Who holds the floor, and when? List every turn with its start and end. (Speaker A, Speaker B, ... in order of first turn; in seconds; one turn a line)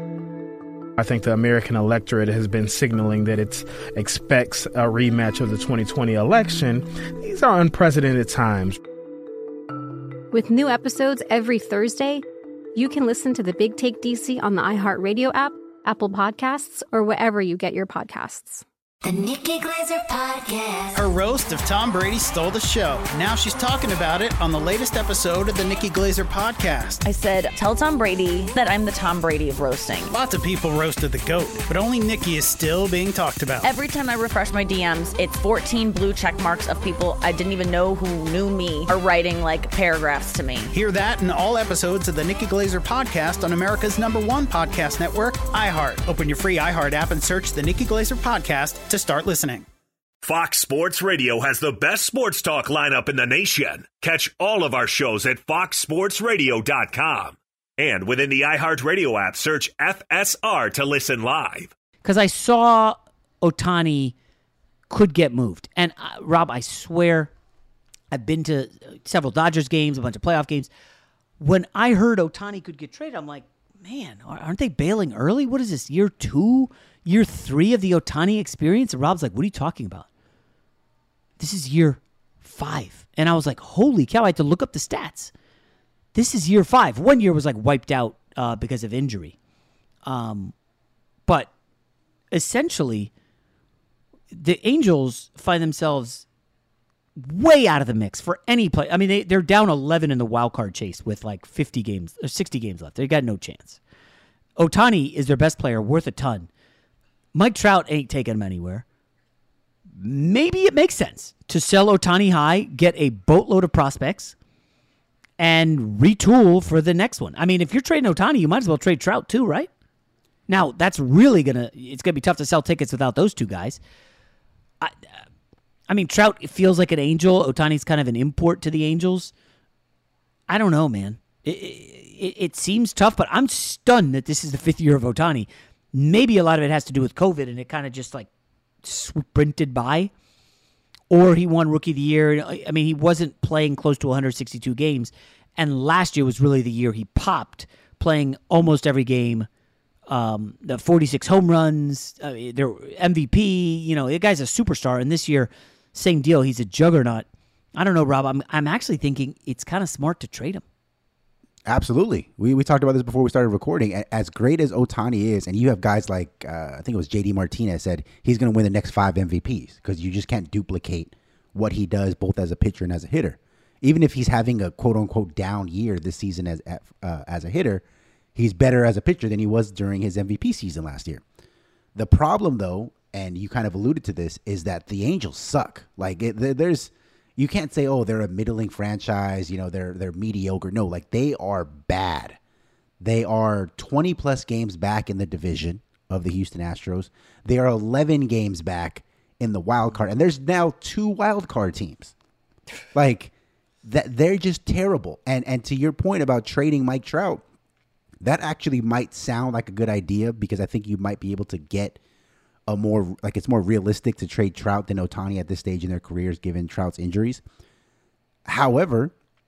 Speaker A: 1.0-8.8
Speaker B: 10.3-12.2
Speaker B: 12.7-18.6
Speaker C: 19.0-21.0
Speaker D: 20.9-27.0
Speaker E: 27.1-30.1
Speaker D: 30.1-33.6
Speaker E: 33.6-40.7
Speaker D: 40.7-49.6
Speaker F: 50.2-61.7
Speaker G: 62.0-64.1
Speaker G: 64.9-67.3
Speaker G: 68.1-70.7
Speaker G: 71.4-80.1
Speaker G: 81.4-85.3
Speaker G: 86.1-89.3
Speaker G: 90.0-90.5
Speaker G: 92.3-93.1
Speaker G: 94.3-96.2
Speaker G: 97.2-103.8
Speaker G: 104.6-106.5
Speaker G: 107.3-108.8
Speaker G: 109.9-114.3
Speaker G: 115.4-119.7
Speaker G: 120.5-123.8
Speaker G: 125.9-129.3
Speaker G: 130.5-138.3
Speaker G: 138.8-140.1
Speaker G: 141.1-149.5
Speaker G: 150.1-160.6
Speaker H: 161.7-177.8
Speaker H: 178.3-181.2
Speaker H: 181.9-192.4
Speaker H: 193.0-202.1
Speaker H: 202.9-207.4
Speaker H: 208.2-212.0
Speaker H: 212.7-217.4
Speaker H: 218.4-219.1